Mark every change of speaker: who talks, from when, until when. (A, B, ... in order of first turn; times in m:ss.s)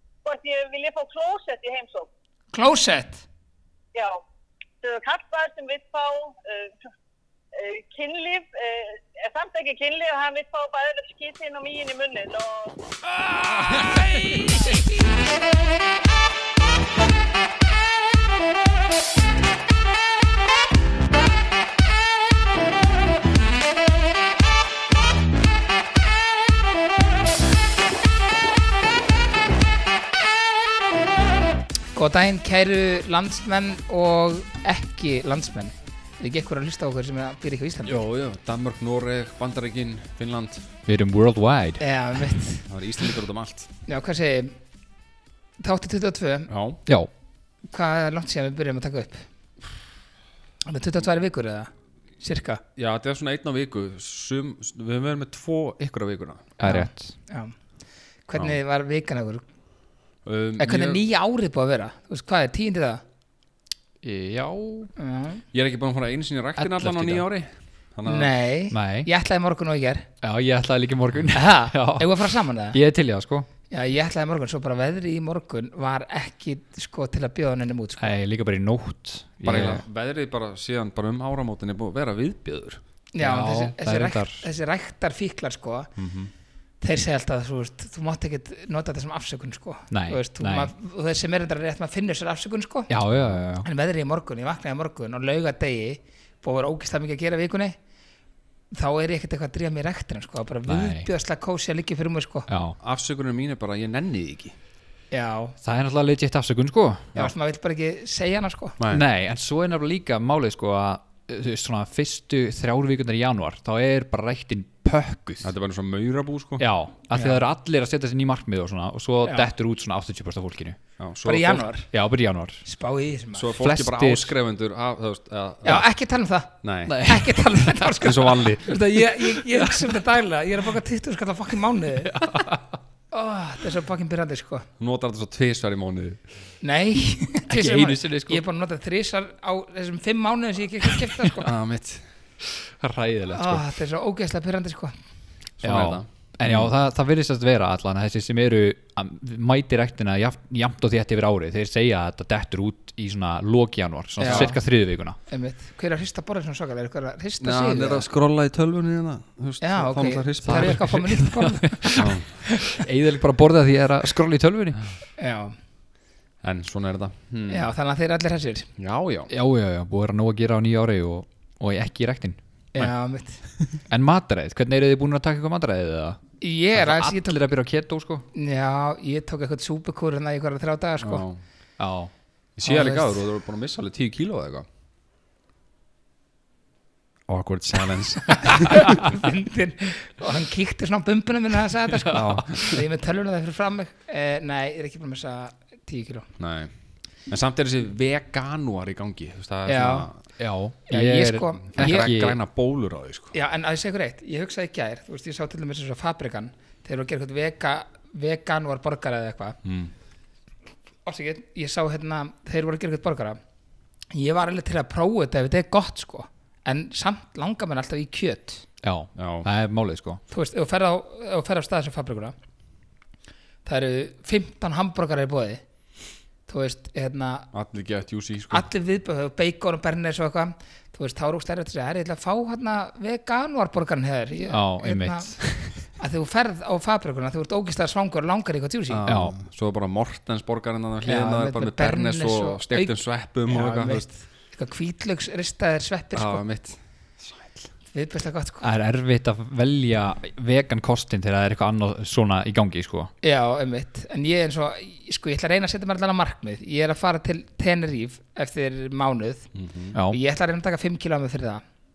0:00.2-0:02.1 A
0:02.5-0:03.2 B
0:03.9-0:04.2 A
0:04.8-0:06.8 A
0:07.5-0:12.7 A
0:31.9-0:38.0 B
0:37.9-0:40.7 C
0:40.8-0:41.8 D
0:41.8-0:42.6 B
0:42.6-0:43.7 C
0:43.9-0:44.6 B
0:45.6-0:46.5 B
0:46.5-0:46.8 C
0:47.7-0:49.3 B
0:50.6-0:52.6 B
0:52.8-0:56.5 C
0:56.6-0:57.1 D
0:56.6-0:57.5 B
0:58.3-0:59.4 B
1:00.2-1:01.0 C
1:00.6-1:03.0 B
1:04.0-1:04.9 D
1:05.0-1:05.4 B
1:05.5-1:08.3 C
1:06.6-1:07.2 D
1:08.0-1:10.1 B
1:08.7-1:09.1 D
1:10.2-1:13.5 D
1:11.3-1:12.8 B
1:13.7-1:18.1 B
1:18.0-1:19.8 D
1:19.4-1:22.8 C
1:23.1-1:25.9 B
1:23.2-1:24.4 D
1:26.0-1:26.3 C
1:26.8-1:32.9 B
1:29.9-1:30.7 D
1:32.9-1:33.7 D
1:33.6-1:37.8 B
1:38.7-1:42.5 B
1:40.7-1:41.1 D
1:42.5-1:42.8 D
1:42.8-1:44.5 C
1:45.1-1:45.6 B
1:45.6-1:47.3 D
1:47.1-1:48.8 B
1:48.8-1:49.0 C
1:48.9-1:55.5 D
1:55.4-1:56.6 C
1:56.6-2:00.8 D
1:57.1-1:57.4 B
1:59.2-1:59.5 B
2:01.0-2:01.6 C
2:01.2-2:01.9 B
2:01.9-2:02.6 D
2:02.6-2:03.5 B
2:03.3-2:05.9 C
2:03.6-2:04.3 D
2:05.6-2:12.3 B
2:06.6-2:07.0 C
2:06.9-2:07.9 D
2:08.0-2:08.7 C
2:09.3-2:10.0 D
2:12.0-2:12.8 D
2:13.1-2:14.7 B
2:14.8-2:16.2 C
2:16.6-2:21.5 B
2:17.5-2:18.4 D
2:21.4-2:22.0 C
2:22.4-2:23.6 D
2:23.3-2:24.9 B
2:25.6-2:26.7 C
2:25.6-2:35.2 D
2:34.2-2:34.6 B
2:34.2-2:34.5 C
2:35.3-2:38.1 B
2:37.4-2:40.8 C
2:39.6-2:42.8 B
2:40.4-2:44.8 D
2:42.0-2:42.3 C
2:45.2-2:45.6 B
2:46.4-2:47.7 C
2:47.5-2:48.7 B
2:48.8-2:49.3 C
2:49.3-2:52.9 D
2:52.7-2:53.4 B
2:53.6-2:56.2 D
2:56.4-2:57.4 B
2:56.7-2:58.2 D
2:58.3-3:01.2 B
3:01.0-3:01.4 C
3:01.8-3:02.1 D
3:02.6-3:04.6 C
3:02.6-3:03.2 B
3:07.3-3:08.9 C
3:08.4-3:16.3 B
3:11.9-3:12.8 D
3:12.1-3:12.4 C
3:16.4-3:16.7 C
3:17.3-3:20.2 C
3:19.6-3:20.1 B
3:20.4-3:22.4 D
3:20.9-3:22.1 B
3:21.7-3:23.3 C
3:23.3-3:29.6 B
3:29.6-3:29.9 C
3:31.0-3:33.4 B
3:34.1-3:38.6 B
3:38.8-3:40.2 D
3:39.2-3:39.5 C
3:40.3-3:42.3 B
3:43.6-3:45.6 B
3:46.5-3:47.5 B
3:47.5-3:48.6 C
3:48.5-3:59.0 B
3:54.5-3:55.7 D
3:58.9-4:04.1 C
3:59.0-3:59.4 D
4:01.0-4:02.9 B
4:03.5-4:06.4 B
4:06.1-4:07.7 C
4:07.9-4:08.7 B
4:08.6-4:13.1 D
4:13.2-4:19.5 B
4:19.5-4:20.0 C
4:19.9-4:20.2 D
4:20.1-4:21.6 B